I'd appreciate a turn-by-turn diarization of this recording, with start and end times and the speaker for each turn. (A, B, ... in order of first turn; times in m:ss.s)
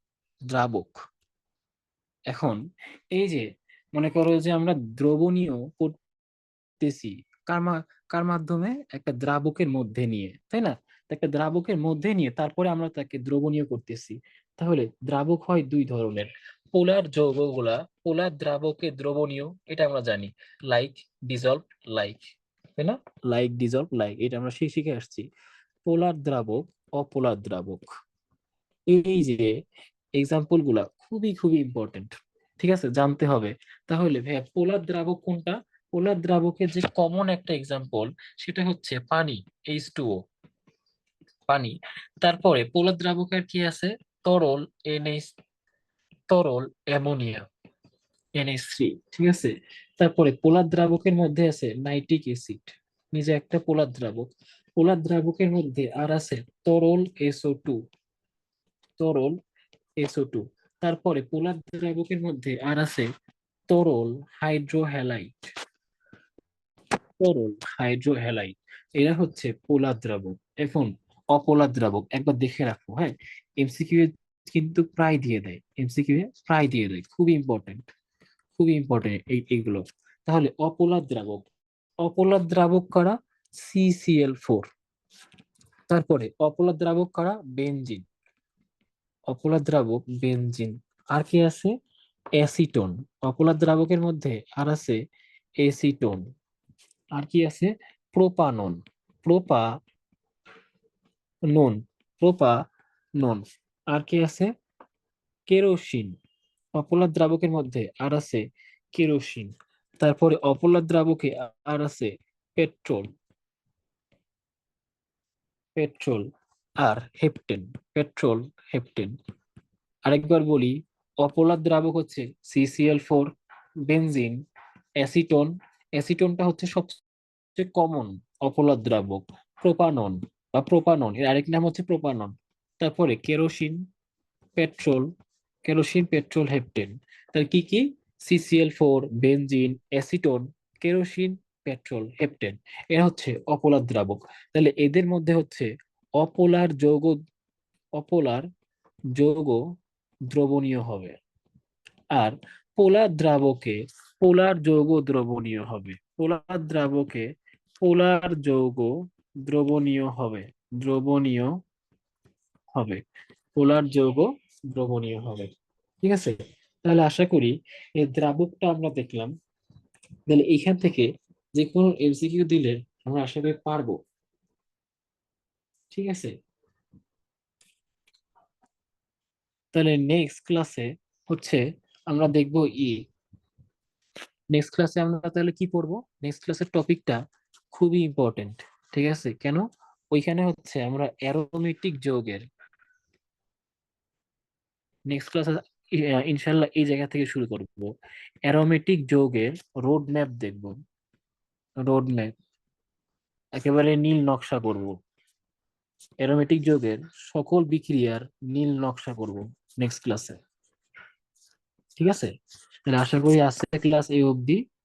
0:00.5-0:01.0 A
0:02.3-0:02.6 A
0:03.1-0:03.4 A
0:04.0-0:05.9 A
0:06.8-0:22.2 A
0:22.8-0:25.2 A
0:25.8-0:27.9 A
0:28.9-0:29.5 A
0:30.2-0:40.2 A
0:41.5-0:45.3 A
0:46.3-0:47.4 A
0:48.4-0:54.2 A
0:54.8-0:57.8 A
0:59.0-0:59.3 A
1:00.0-1:03.1 A
1:03.7-1:05.3 A
1:07.2-1:17.8 A
1:18.6-1:21.4 A
1:22.0-1:24.6 A
1:25.9-1:28.0 A
1:29.3-1:31.7 A
1:32.4-1:35.0 A
1:35.6-1:36.2 A
1:37.2-1:39.6 A
1:41.5-1:42.5 A
1:43.2-1:44.5 A
1:45.5-1:46.1 A
1:46.8-1:48.4 A
1:48.9-1:53.1 A
1:55.8-1:56.2 A
1:56.8-1:59.1 A
2:00.1-2:03.3 A
2:03.9-2:04.4 A
2:05.0-2:07.0 A
2:07.6-2:13.8 A
2:14.6-2:15.1 A
2:15.6-2:25.7 A
2:26.2-2:27.2 A
2:28.0-2:28.4 A
2:29.2-2:29.6 A
2:30.3-2:31.1 A
2:32.2-2:37.3 A
2:37.8-2:38.9 A
2:39.4-2:41.5 A
2:42.8-2:43.0 A
2:43.6-2:45.5 A
2:46.0-2:49.3 A
2:50.3-2:54.0 A
2:55.9-2:56.3 A
2:59.7-3:03.0 A
3:04.5-3:07.2 A
3:07.7-3:12.4 A
3:15.1-3:15.5 A
3:16.1-3:17.9 A
3:18.5-3:20.7 A
3:21.8-3:22.3 A
3:23.6-3:25.0 A
3:26.2-3:30.4 A
3:32.0-3:32.3 A
3:32.9-3:34.6 A